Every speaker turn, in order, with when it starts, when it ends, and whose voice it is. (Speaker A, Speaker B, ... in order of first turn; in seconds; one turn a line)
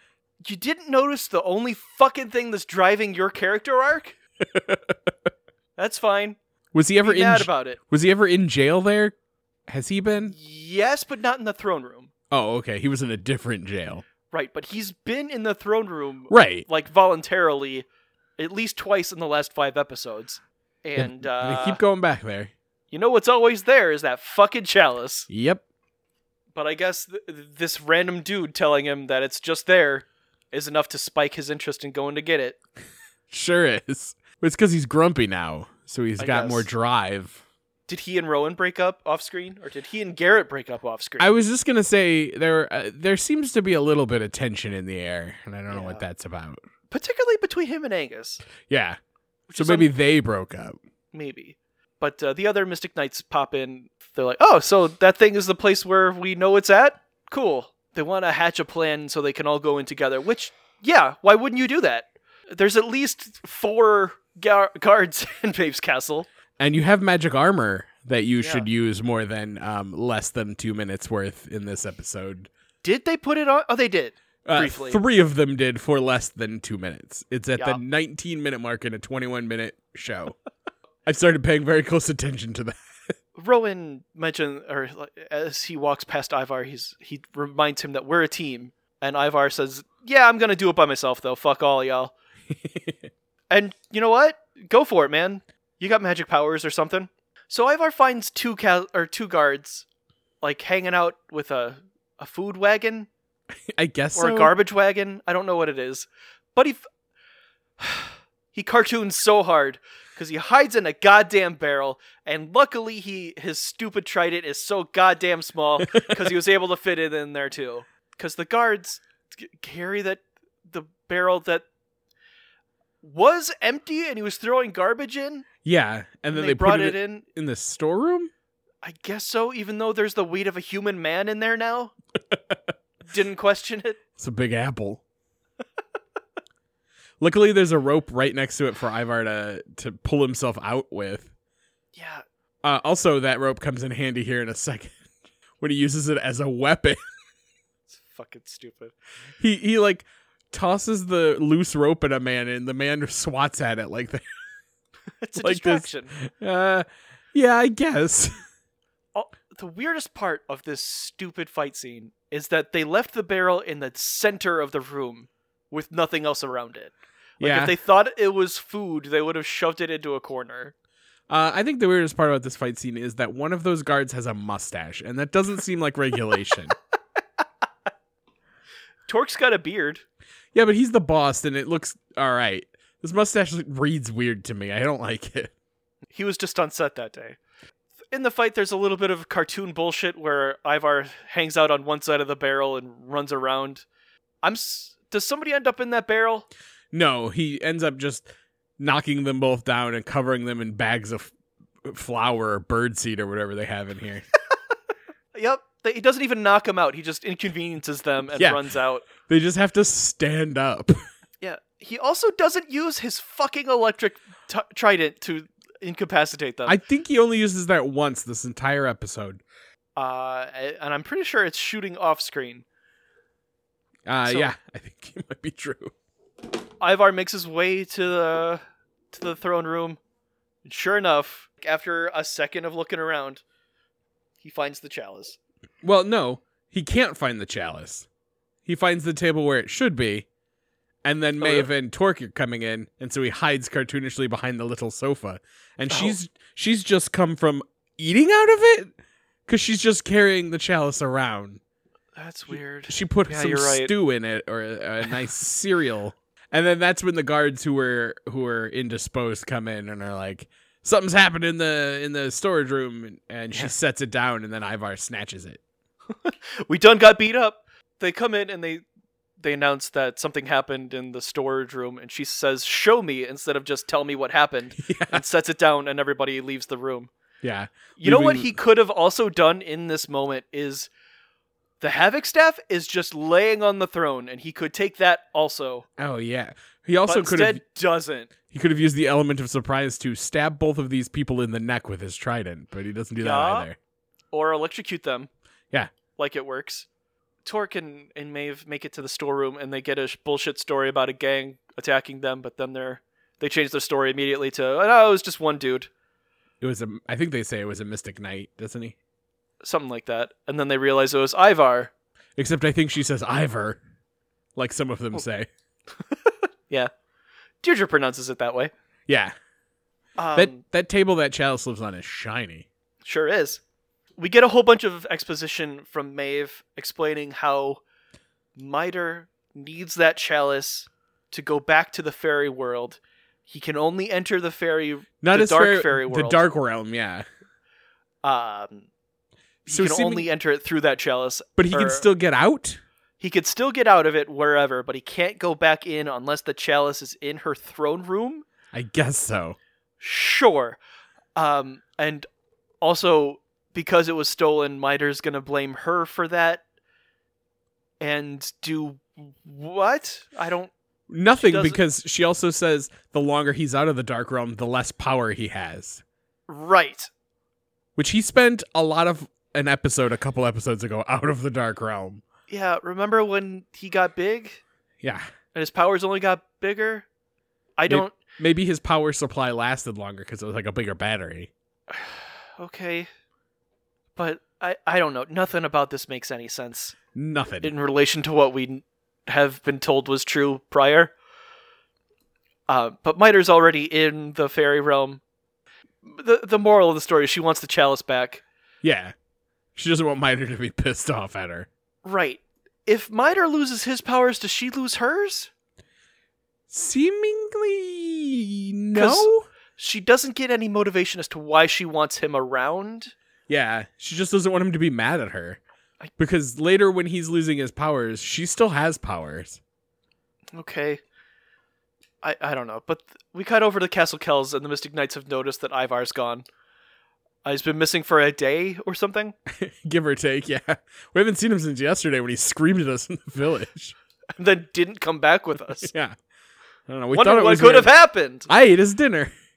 Speaker A: 0.5-4.2
Speaker B: 4.5-5.1
Speaker A: 5.8-6.4
Speaker B: 6.7-9.2
Speaker A: 7.0-7.8
Speaker B: 9.7-10.3
Speaker A: 10.3-12.1
Speaker B: 12.3-14.0
Speaker A: 14.3-17.9
Speaker B: 16.3-16.7
Speaker A: 18.4-21.8
Speaker B: 21.0-22.5
Speaker A: 22.9-25.3
Speaker B: 25.3-25.6
Speaker A: 26.6-32.6
Speaker B: 33.3-37.4
Speaker A: 36.2-36.7
Speaker A: 37.9-41.3
Speaker B: 41.2-46.6
Speaker A: 45.7-46.0
Speaker A: 46.9-48.4
Speaker B: 48.7-49.0
Speaker A: 49.5-49.9
Speaker B: 49.6-50.8
Speaker A: 51.1-66.3
Speaker B: 66.6-72.5
Speaker A: 68.4-68.7
Speaker A: 72.8-75.0
Speaker B: 74.5-80.4
Speaker B: 81.1-82.8
Speaker A: 83.4-92.1
Speaker B: 92.6-93.0
Speaker A: 93.5-99.8
Speaker A: 100.4-103.1
Speaker B: 103.7-104.5
Speaker A: 104.2-106.8
Speaker A: 107.8-121.7
Speaker B: 115.9-116.3
Speaker A: 123.0-125.5
Speaker B: 125.6-128.3
Speaker A: 126.3-127.2
Speaker A: 128.8-131.9
Speaker A: 133.1-134.0
Speaker B: 134.2-135.0
Speaker B: 137.2-141.3
Speaker A: 141.9-142.2
Speaker B: 142.6-145.0
Speaker B: 145.6-147.0
Speaker A: 147.9-148.9
Speaker B: 149.4-154.3
Speaker A: 155.2-156.1
Speaker B: 155.4-158.4
Speaker A: 159.2-170.7
Speaker B: 167.4-167.7
Speaker B: 171.3-176.8
Speaker A: 179.1-180.0
Speaker B: 180.5-185.5
Speaker A: 186.1-187.4
Speaker A: 188.1-193.8
Speaker A: 194.4-196.5
Speaker B: 196.9-198.3
Speaker B: 198.8-201.3
Speaker B: 201.8-204.2
Speaker A: 205.3-209.1
Speaker B: 208.4-208.6
Speaker B: 209.2-211.0
Speaker A: 211.4-216.8
Speaker B: 216.7-219.4
Speaker A: 220.0-222.7
Speaker B: 224.1-225.9
Speaker A: 224.2-224.5
Speaker A: 226.8-230.0
Speaker A: 230.7-233.4
Speaker A: 234.4-235.4
Speaker B: 235.8-238.1
Speaker B: 238.7-240.3
Speaker B: 241.0-248.9
Speaker A: 241.4-241.7
Speaker A: 245.9-246.2
Speaker B: 249.5-251.6
Speaker A: 252.2-253.9
Speaker B: 252.5-265.6
Speaker A: 266.1-268.8
Speaker A: 269.4-277.1
Speaker B: 274.8-275.2
Speaker B: 277.4-278.6
Speaker A: 278.0-280.9
Speaker A: 281.8-285.9
Speaker B: 286.0-287.6
Speaker A: 287.1-288.3
Speaker B: 288.5-293.8
Speaker A: 293.2-293.7
Speaker A: 294.3-295.3
Speaker A: 296.2-296.9
Speaker A: 297.4-305.9
Speaker B: 306.6-309.0
Speaker A: 309.6-311.9
Speaker B: 312.4-313.8
Speaker B: 314.6-315.5
Speaker A: 316.3-316.9
Speaker A: 317.6-318.7
Speaker B: 319.1-319.4
Speaker A: 320.2-320.6
Speaker B: 320.4-322.7
Speaker A: 323.1-323.6
Speaker A: 324.2-327.8
Speaker A: 328.6-336.4
Speaker B: 335.2-337.3
Speaker A: 338.2-338.9
Speaker A: 339.7-342.1
Speaker B: 339.7-340.3
Speaker B: 341.6-342.8
Speaker A: 343.2-348.5
Speaker B: 348.7-349.6
Speaker A: 350.0-350.8
Speaker A: 351.4-352.3
Speaker A: 352.8-356.6
Speaker A: 358.0-360.7
Speaker B: 361.1-366.0
Speaker A: 361.4-361.8
Speaker A: 366.5-367.1
Speaker B: 368.0-372.2
Speaker A: 372.5-374.6
Speaker A: 375.6-377.1
Speaker A: 377.8-378.1
Speaker B: 377.9-381.5
Speaker A: 381.9-383.1
Speaker A: 384.2-387.0
Speaker B: 387.1-387.7
Speaker A: 387.6-391.1
Speaker A: 392.7-395.2
Speaker A: 396.1-398.4
Speaker B: 398.8-399.1
Speaker B: 399.8-401.7
Speaker A: 402.0-405.5
Speaker B: 406.7-409.5
Speaker A: 408.9-413.1
Speaker B: 413.5-415.6
Speaker B: 416.2-419.6
Speaker A: 420.6-421.0
Speaker A: 422.2-426.4
Speaker A: 427.4-429.4
Speaker B: 429.5-433.9
Speaker A: 434.4-435.9
Speaker B: 435.8-436.2
Speaker B: 436.9-437.9
Speaker A: 437.1-438.5
Speaker B: 438.5-439.3